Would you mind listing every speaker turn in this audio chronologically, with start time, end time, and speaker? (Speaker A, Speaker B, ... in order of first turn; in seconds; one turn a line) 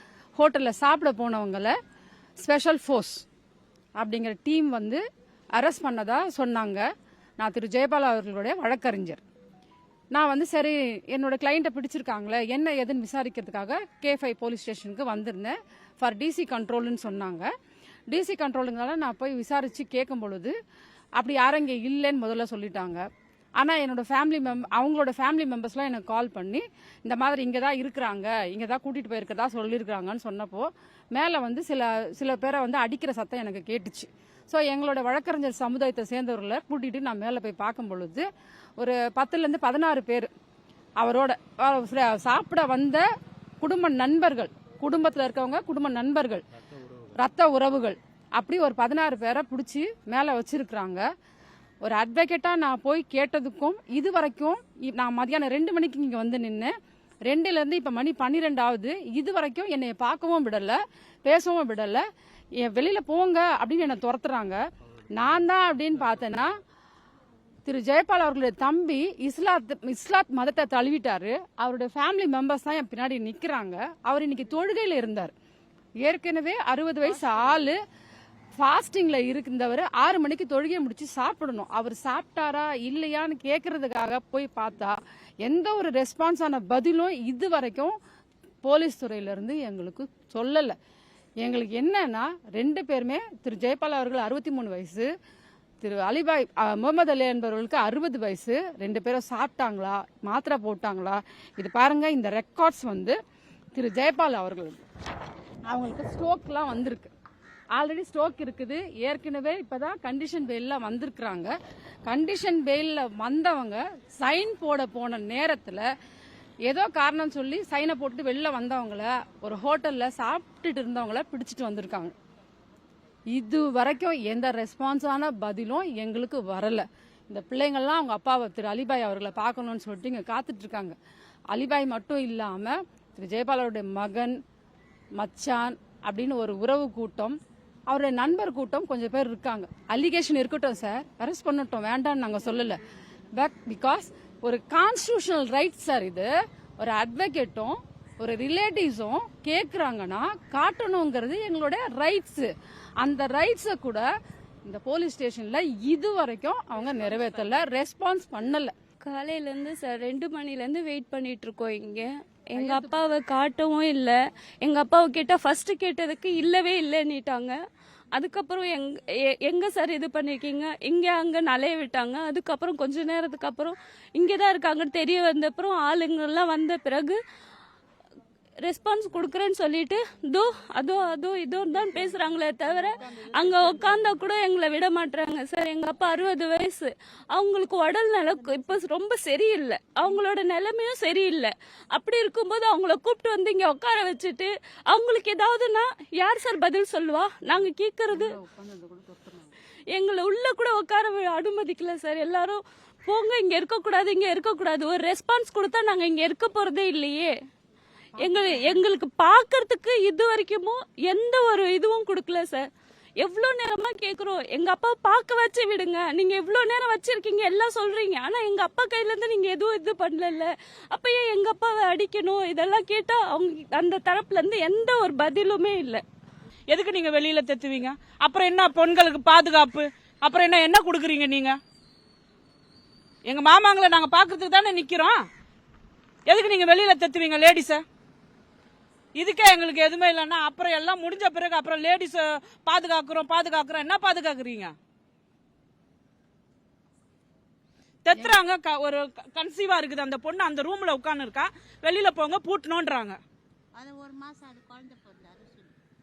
Speaker A: 0.4-1.8
Speaker A: 2.4-3.3
Speaker A: 4.0-5.0
Speaker A: 5.5-6.9
Speaker A: 7.4-9.2
Speaker A: 10.1-17.5
Speaker A: 18.1-20.5
Speaker A: 21.2-23.1
Speaker A: 23.6-38.3
Speaker A: 38.8-40.3
Speaker A: 41.0-43.1
Speaker A: 43.6-46.4
Speaker A: 47.2-51.1
Speaker A: 51.8-56.7
Speaker A: 57.3-62.0
Speaker A: 62.6-64.6
Speaker A: 65.2-66.6
Speaker A: 67.7-75.3
Speaker A: 76.0-77.8
Speaker A: 78.6-88.0
Speaker A: 88.7-90.8
Speaker A: 91.4-95.1
Speaker A: 95.8-103.2
Speaker A: 103.8-104.8
Speaker A: 105.7-107.1
Speaker A: 107.8-111.5
Speaker A: 112.1-115.9
Speaker A: 116.7-122.1
Speaker A: 123.3-130.9
Speaker A: 131.5-134.4
Speaker A: 135.2-142.8
Speaker A: 143.4-154.1
Speaker A: 154.7-158.7
Speaker B: 159.1-167.6
Speaker A: 162.6-163.0
Speaker B: 168.2-177.2
Speaker B: 178.6-198.4
Speaker A: 183.0-184.2
Speaker A: 198.1-199.5
Speaker B: 199.9-207.3
Speaker A: 208.2-208.8
Speaker B: 208.2-212.7
Speaker B: 213.2-226.0
Speaker C: 226.7-231.6
Speaker C: 233.3-235.2
Speaker C: 236.3-237.8
Speaker C: 239.2-244.7
Speaker C: 248.1-253.2
Speaker D: 253.8-255.7